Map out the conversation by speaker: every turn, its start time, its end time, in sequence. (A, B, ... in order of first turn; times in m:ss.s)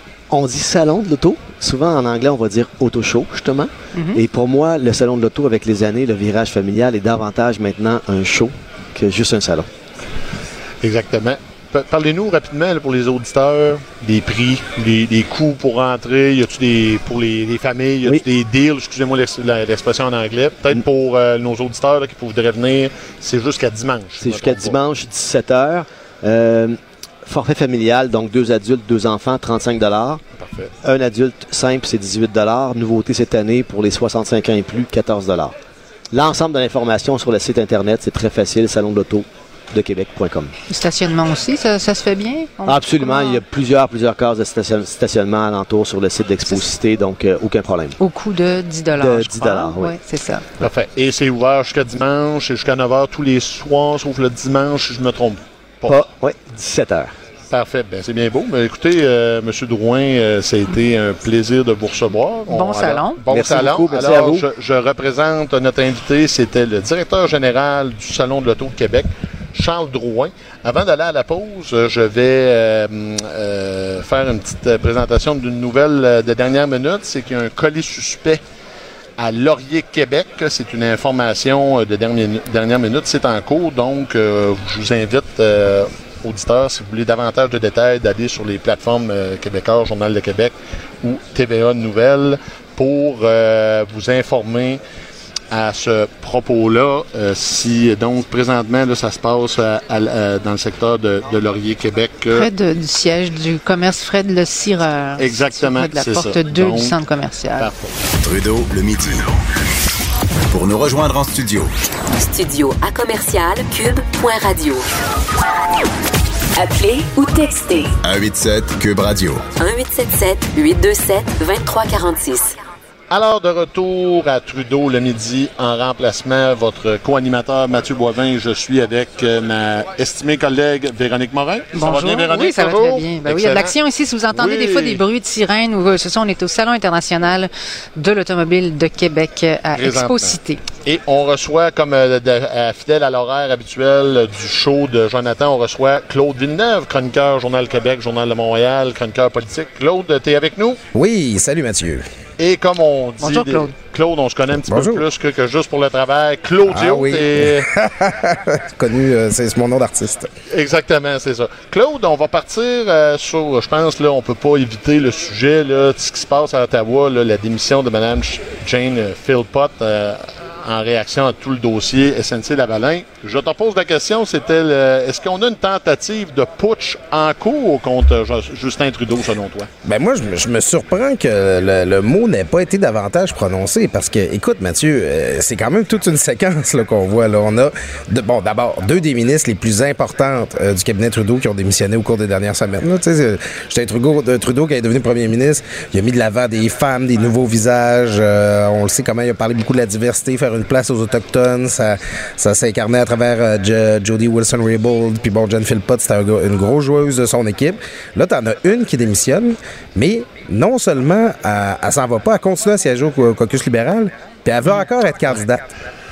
0:00.3-0:09.7 A
0:03.9-0:04.2 B
0:10.8-0:24.8 C
0:24.2-0:30.2 A
0:30.4-0:30.7 C
0:30.8-0:35.5 A
0:36.1-0:40.5 A
0:40.7-0:43.4 B
0:42.6-0:48.0 A
0:48.0-0:50.5 B
0:48.9-0:50.0 A
0:50.6-0:56.1 C
0:55.9-0:57.1 A
0:57.5-1:18.4 C
1:02.5-1:03.2 B
1:03.3-1:04.5 A
1:19.2-1:34.8 C
1:35.5-1:42.5 C
1:42.3-1:47.7 B
1:45.2-1:47.0 C
1:47.6-1:48.0 C
1:48.2-1:49.3 D
1:50.5-1:51.7 D
1:52.2-1:54.9 E
1:56.6-1:58.0 E
1:58.0-1:59.4 D
1:59.6-2:02.6 E
2:03.1-2:13.7 C
2:11.7-2:20.6 B
2:14.3-2:15.0 C
2:19.8-2:30.8 C
2:30.9-2:32.0 F
2:32.4-2:37.7 C
2:33.2-2:33.7 B
2:34.7-2:35.0 F
2:36.7-2:40.3 F
2:40.5-2:59.7 C
2:59.8-3:35.6 F